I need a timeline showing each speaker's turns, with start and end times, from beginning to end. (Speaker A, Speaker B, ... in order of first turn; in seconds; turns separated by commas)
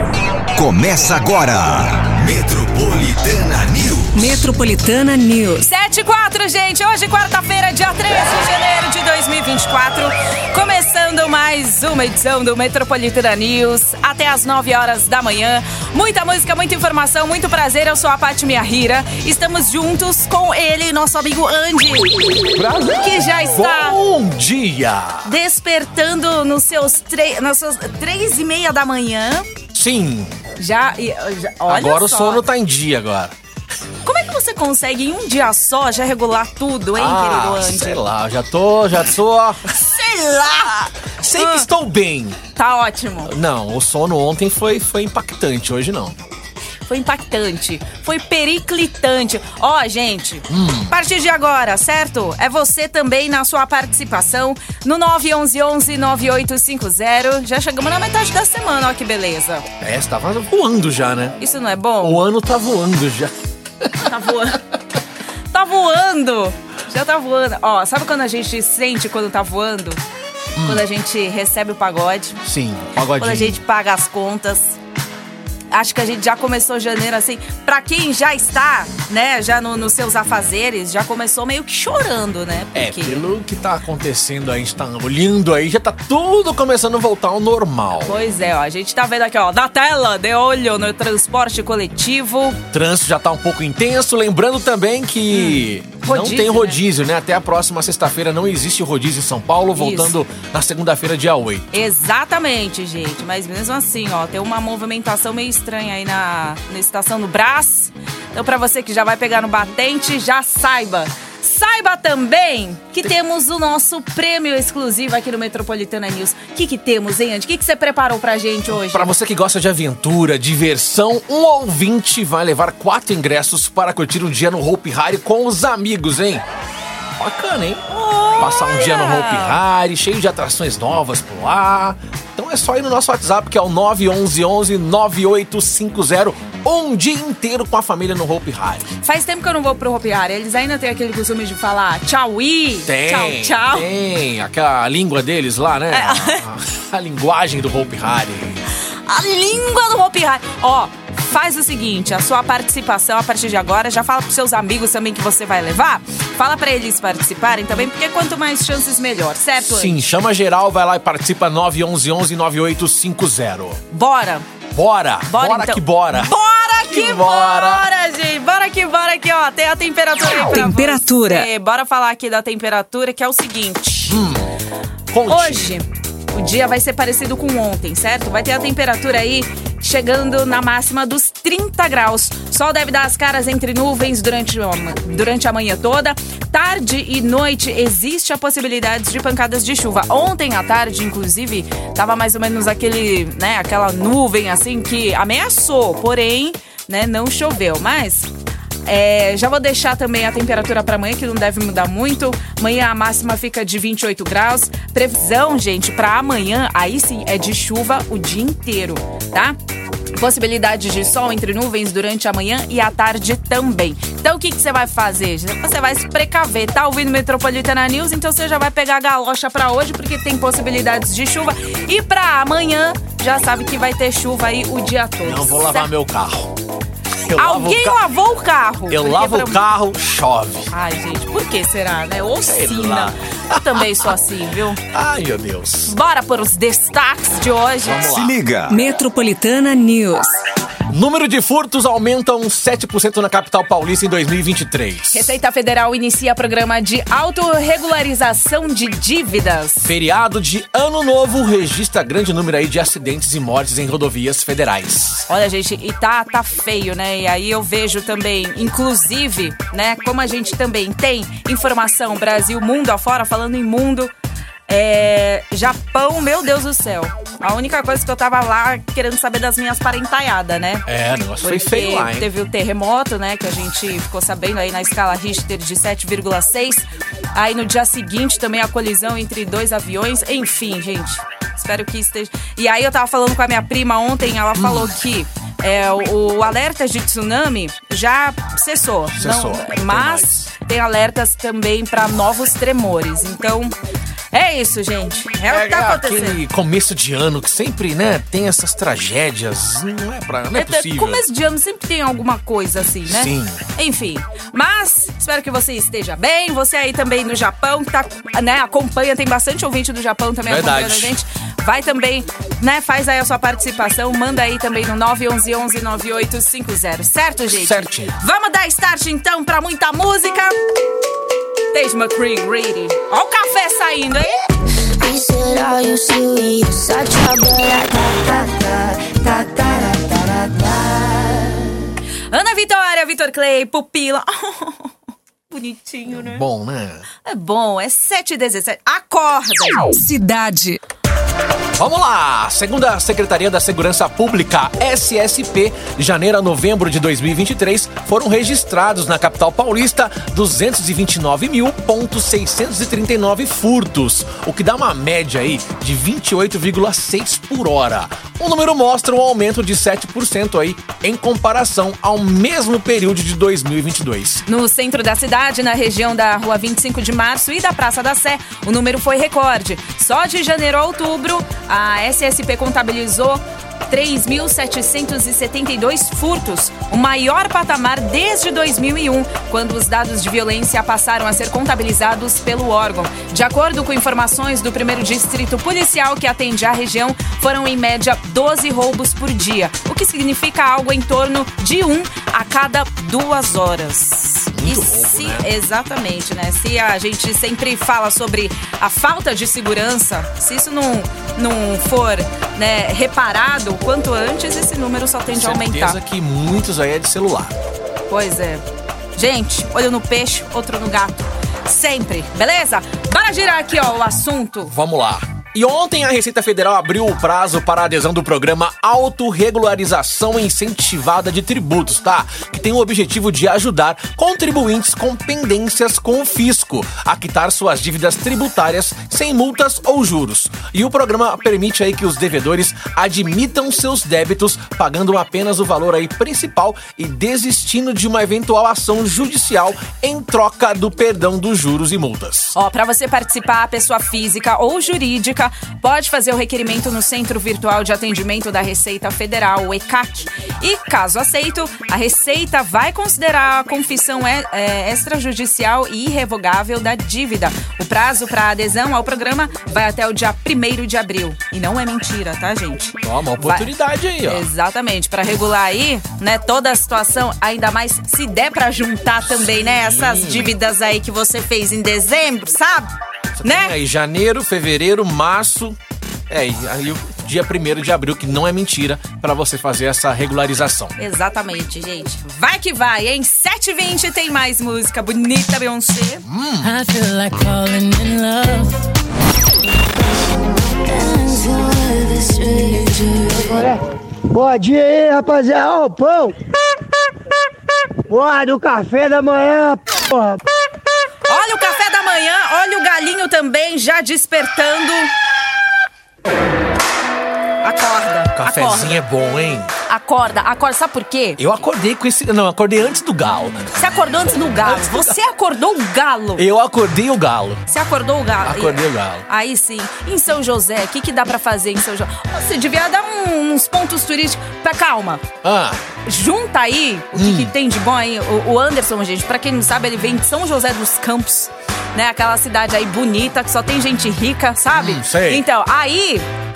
Speaker A: 0.6-4.4, Speaker B: 4.1-5.7, Speaker C: 5.6-22.1, Speaker D: 22.5-25.3, Speaker C: 22.8-24.0, Speaker C: 25.2-29.5, Speaker D: 29.7-30.4, Speaker C: 30.6-32.4, Speaker D: 31.7-33.3, Speaker C: 34.0-38.0, Speaker D: 36.9-39.6, Speaker C: 39.7-41.7, Speaker D: 41.2-42.4, Speaker C: 42.5-43.3, Speaker D: 43.2-46.2, Speaker C: 46.9-59.6, Speaker D: 50.5-50.9, Speaker D: 59.8-61.4, Speaker C: 61.4-62.2, Speaker D: 62.0-64.1, Speaker C: 64.0-64.6, Speaker C: 65.5-70.0, Speaker D: 70.5-70.8, Speaker C: 70.6-72.4, Speaker D: 72.4-73.6, Speaker C: 73.2-74.8, Speaker C: 75.7-83.2, Speaker D: 82.7-88.2, Speaker C: 88.0-92.6, Speaker D: 92.7-101.7, Speaker C: 95.3-96.8, Speaker C: 99.7-100.1, Speaker C: 101.7-119.1, Speaker D: 118.7-126.4, Speaker D: 127.2-138.9, Speaker C: 127.9-129.6, Speaker C: 139.0-143.9, Speaker D: 142.8-148.6, Speaker C: 145.9-146.4, Speaker C: 149.1-160.0, Speaker D: 159.6-163.8, Speaker C: 163.9-164.5, Speaker D: 164.7-166.3, Speaker C: 165.2-174.2, Speaker D: 166.9-167.8, Speaker B: 170.5-171.5, Speaker D: 174.1-174.5, Speaker D: 175.1-175.8, Speaker C: 175.3-198.3, Speaker C: 198.8-209.6, Speaker C: 210.2-225.9, Speaker D: 225.2-226.5, Speaker D: 227.1-228.0, Speaker C: 227.3-229.6, Speaker D: 228.9-230.7, Speaker C: 230.7-234.8, Speaker D: 232.4-234.1, Speaker D: 234.9-235.9, Speaker C: 235.9-238.1, Speaker D: 237.8-238.4, Speaker A: 238.1-238.8, Speaker B: 238.7-240.3, Speaker D: 240.9-245.3, Speaker C: 245.1-249.8, Speaker D: 249.8-255.3, Speaker C: 255.3-264.1, Speaker C: 264.7-270.9, Speaker D: 270.9-272.3, Speaker C: 271.4-293.8, Speaker D: 284.6-284.9, Speaker D: 289.1-290.5, Speaker C: 294.3-296.4, Speaker D: 295.5-301.3, Speaker C: 300.5-320.6, Speaker D: 303.1-303.6, Speaker D: 310.4-311.1, Speaker D: 317.5-318.2, Speaker C: 321.7-324.3, Speaker E: 324.9-331.7, Speaker C: 332.3-334.9, Speaker C: 335.5-336.4, Speaker D: 336.1-337.1, Speaker C: 337.2-340.8, Speaker D: 341.8-364.4, Speaker C: 364.4-406.0, Speaker D: 394.5-395.5, Speaker D: 405.3-407.6, Speaker C: 408.1-408.6, Speaker C: 409.1-414.7, Speaker D: 414.7-442.6, Speaker C: 442.5-463.7, Speaker D: 463.0-464.5, Speaker C: 464.2-472.9, Speaker D: 469.4-470.5, Speaker D: 473.4-475.8, Speaker C: 473.4-473.7, Speaker D: 476.3-481.0, Speaker C: 481.0-486.2, Speaker D: 486.2-486.7, Speaker F: 486.6-488.7, Speaker E: 490.0-493.7, Speaker G: 493.5-496.4, Speaker G: 498.1-500.4, Speaker C: 501.3-505.1, Speaker C: 507.6-509.0, Speaker D: 508.3-509.7, Speaker C: 509.9-511.4, Speaker D: 511.4-513.7, Speaker C: 513.7-516.5, Speaker D: 514.5-515.2, Speaker D: 516.4-517.6, Speaker C: 517.7-525.2, Speaker D: 518.4-519.2, Speaker D: 525.4-525.8, Speaker C: 526.0-536.3, Speaker D: 527.1-527.5, Speaker D: 534.7-535.4